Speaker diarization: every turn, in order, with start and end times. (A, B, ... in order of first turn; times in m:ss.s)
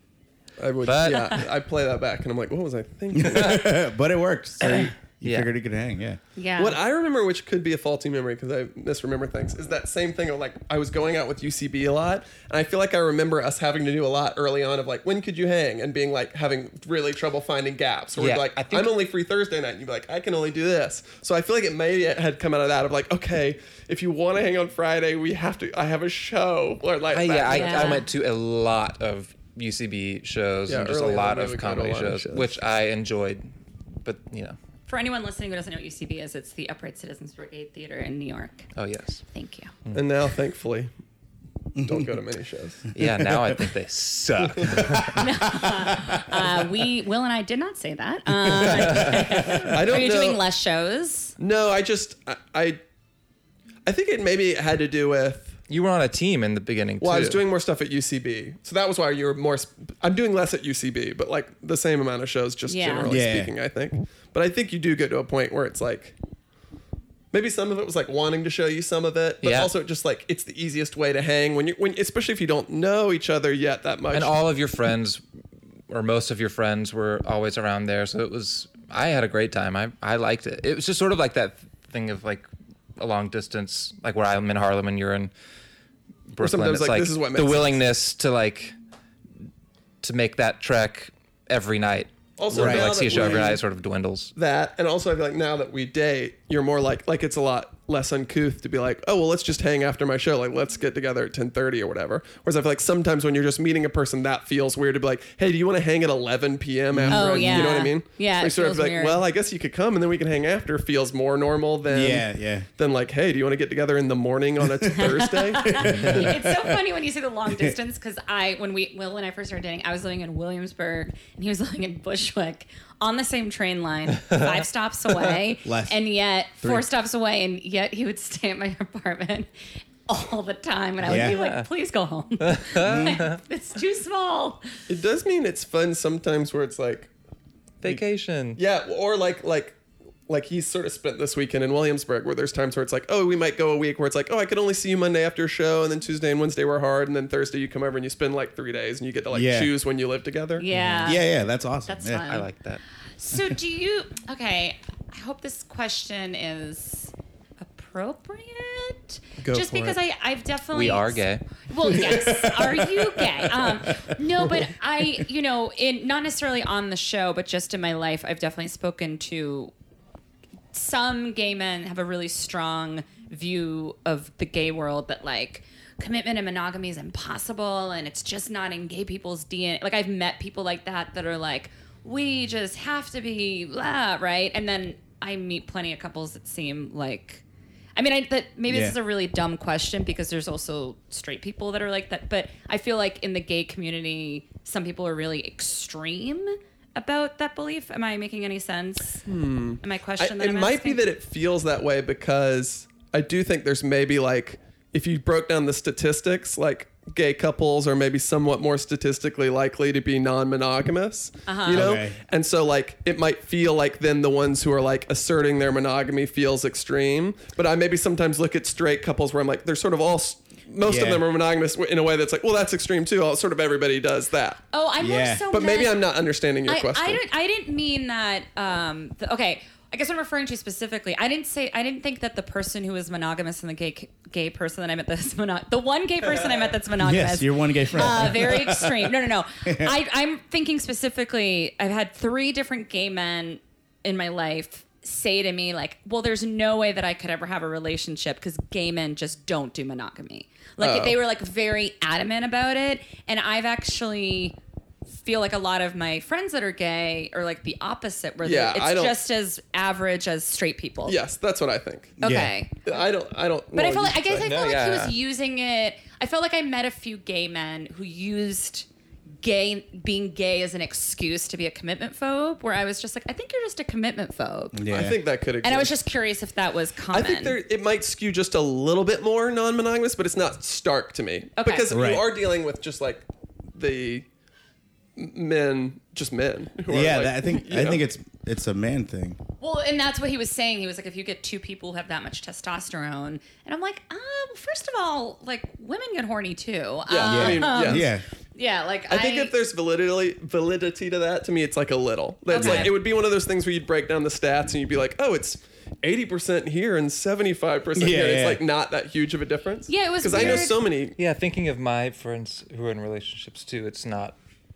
0:00.6-0:03.7 A
0:00.8-0:01.4 B
0:03.1-0:06.2 C
0:03.3-0:03.6 B
0:04.6-0:05.5 B
0:06.4-0:06.8 D
0:06.6-0:28.0 A
0:18.2-0:18.9 B
0:27.1-0:33.5 B
0:27.5-0:28.0 D
0:30.7-0:32.5 A
0:34.0-0:34.6 B
0:34.9-0:38.7 D
0:38.8-0:39.2 B
0:39.3-0:39.7 D
0:39.9-0:40.9 A
0:41.8-0:42.9 A
0:42.9-0:45.2 B
0:43.0-0:43.7 C
0:44.6-0:46.4 C
0:45.1-0:51.4 D
0:48.5-0:49.7 C
0:49.6-0:50.4 A
0:51.4-0:52.8 A
0:53.8-0:55.6 A
0:55.7-0:57.4 B
0:57.0-1:06.2 A
1:02.6-1:03.2 D
1:03.1-1:03.5 C
1:07.3-1:14.4 A
1:09.4-1:09.7 B
1:14.1-1:15.2 B
1:15.9-1:25.3 B
1:26.3-1:28.7 B
1:26.4-1:27.8 A
1:30.0-1:34.3 B
1:32.4-1:33.6 A
1:32.5-1:33.5 C
1:34.3-1:56.1 A
1:46.9-1:47.8 C
1:47.1-1:49.2 D
1:51.9-1:52.7 C
1:54.8-1:55.1 C
1:54.9-2:09.5 D
1:55.6-1:56.8 C
2:04.2-2:04.5 B
2:05.6-2:06.0 C
2:10.1-2:14.6 D
2:11.0-2:11.4 C
2:11.0-2:11.7 B
2:12.4-2:13.4 B
2:12.8-2:13.2 C
2:14.9-2:17.1 A
2:17.8-2:18.6 B
2:18.6-2:30.6 A
2:29.3-2:29.7 C
2:30.6-2:31.3 D
2:30.7-2:31.2 B
2:31.0-2:32.2 C
2:31.8-2:32.5 D
2:32.3-2:32.8 B
2:33.2-2:49.7 D
2:39.4-2:40.0 A
2:40.7-2:41.4 B
2:41.9-2:44.0 C
2:50.7-3:07.4 D
3:08.0-3:19.2 D
3:08.7-3:09.0 C
3:19.2-3:44.6 A
3:19.8-3:21.0 D
3:31.4-3:32.0 D
3:31.7-3:32.2 C
3:40.8-3:41.2 C
3:44.7-3:46.0 D
3:45.0-3:45.4 C
3:45.5-3:47.2 A
3:46.6-4:14.6 D
3:57.0-3:59.9 C
4:10.8-4:11.2 A
4:15.2-4:21.2 D
4:18.4-4:19.2 A
4:21.0-4:22.2 A
4:22.2-4:22.5 C
4:22.2-4:23.0 D
4:22.8-4:24.5 A
4:23.7-4:28.9 D
4:24.4-4:25.1 B
4:29.4-4:34.8 D
4:34.7-4:35.2 C
4:34.9-4:35.9 A
4:35.6-4:37.6 D
4:37.1-4:44.2 A
4:41.6-4:41.9 D
4:41.9-4:42.3 C
4:45.2-4:48.0 A
4:46.9-4:49.4 C
4:49.6-4:59.5 D
4:57.1-4:58.1 A
4:57.2-4:58.2 C
4:59.1-5:11.2 A
5:02.5-5:02.9 D
5:02.6-5:02.9 B
5:07.9-5:08.6 C
5:09.9-5:10.8 D
5:11.2-5:14.4 B